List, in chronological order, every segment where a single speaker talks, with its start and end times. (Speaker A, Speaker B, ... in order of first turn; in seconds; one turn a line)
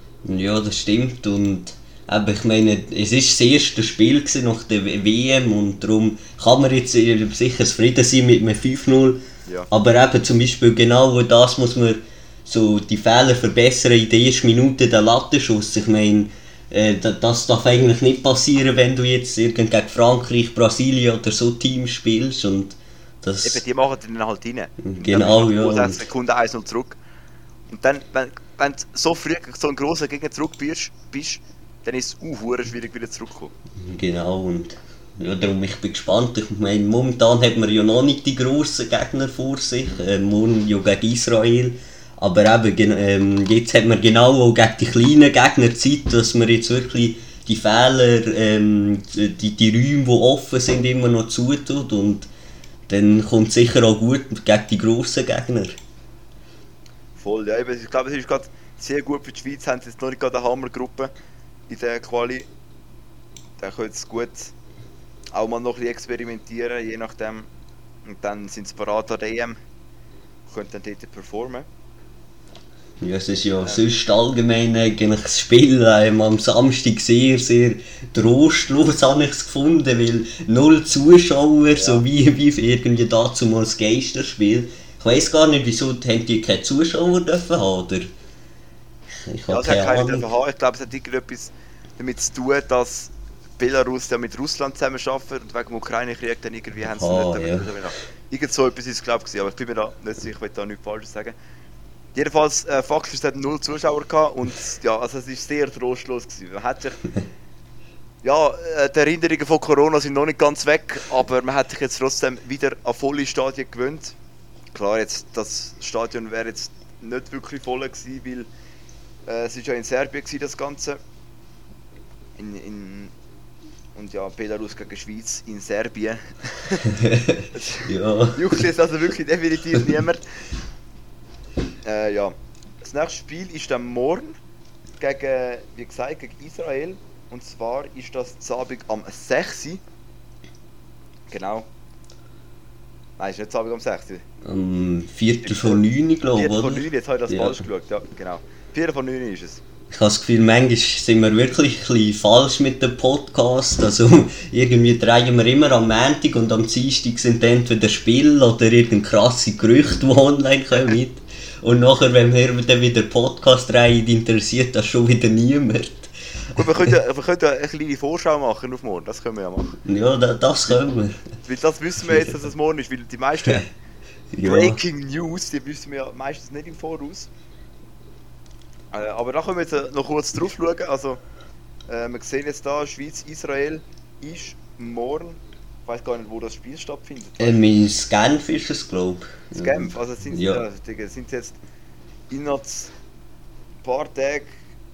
Speaker A: 0.2-23.6
Speaker B: 23.4-27.0
Speaker A: 24.8-26.0
Speaker B: 27.7-33.5
Speaker A: 33.8-52.3
Speaker A: 52.9-55.8
Speaker B: 57.2-61.1
Speaker B: 61.7-62.5
Speaker B: 63.6-64.5
Speaker B: 65.3-67.5
Speaker B: 68.1-69.6
Speaker B: 70.5-71.7
Speaker A: 73.0-88.1
Speaker B: 81.7-82.0
Speaker A: 89.2-90.3
Speaker B: 89.5-101.4
Speaker A: 96.8-97.7
Speaker B: 102.2-107.0
Speaker B: 108.2-114.2
Speaker B: 114.7-118.5
Speaker B: 119.3-121.0
Speaker B: 122.4-123.1
Speaker B: 124.0-126.9
Speaker A: 126.9-128.5
Speaker B: 127.5-130.2
Speaker B: 131.8-134.4
Speaker B: 135.0-139.8
Speaker B: 141.3-141.7
Speaker B: 143.2-144.2
Speaker A: 144.4-147.6
Speaker B: 145.4-145.8
Speaker B: 146.3-149.6
Speaker A: 149.9-166.6
Speaker B: 166.6-169.8
Speaker A: 169.8-171.2
Speaker B: 171.4-173.7
Speaker A: 174.3-174.8
Speaker B: 174.4-177.3
Speaker B: 178.9-181.2
Speaker B: 181.9-187.6
Speaker A: 187.4-190.6
Speaker B: 189.5-191.6
Speaker B: 192.3-192.9
Speaker B: 193.8-194.6